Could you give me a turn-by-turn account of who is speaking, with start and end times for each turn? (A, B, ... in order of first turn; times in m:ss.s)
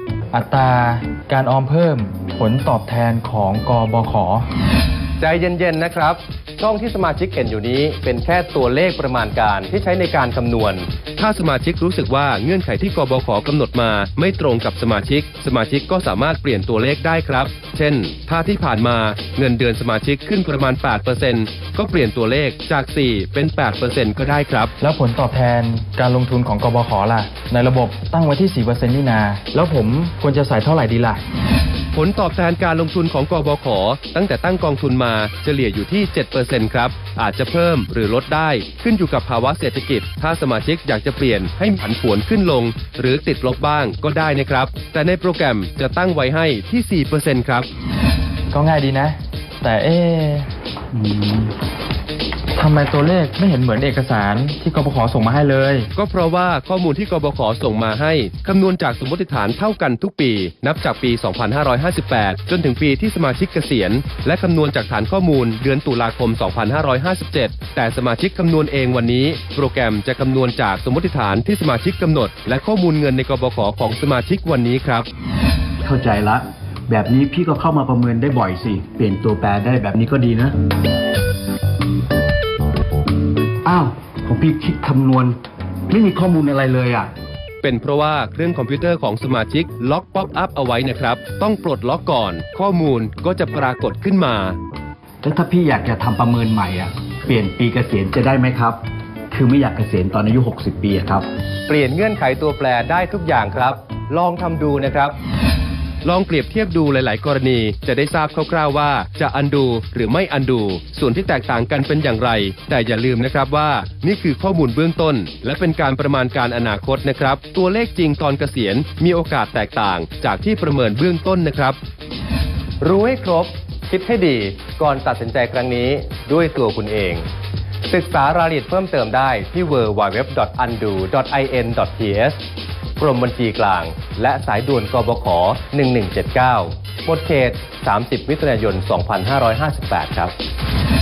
0:00.3-0:04.5 A
0:05.2-0:24.7 B
0:24.8-0:31.2 A
0:31.9-0:47.7 B
0:48.5-0:50.5 A
0:51.0-0:51.5 C
0:52.6-0:55.9 A
0:56.0-1:15.1 B
1:15.8-1:20.6 C
1:23.6-1:25.4 C
1:25.9-1:27.1 C
1:27.6-1:34.6 B
1:35.2-1:38.8 C
1:39.3-1:41.3 C
1:41.7-1:45.2 B
1:46.0-2:01.8 B
2:02.8-2:07.2 B
2:07.9-2:12.4 B
2:13.0-2:20.3 B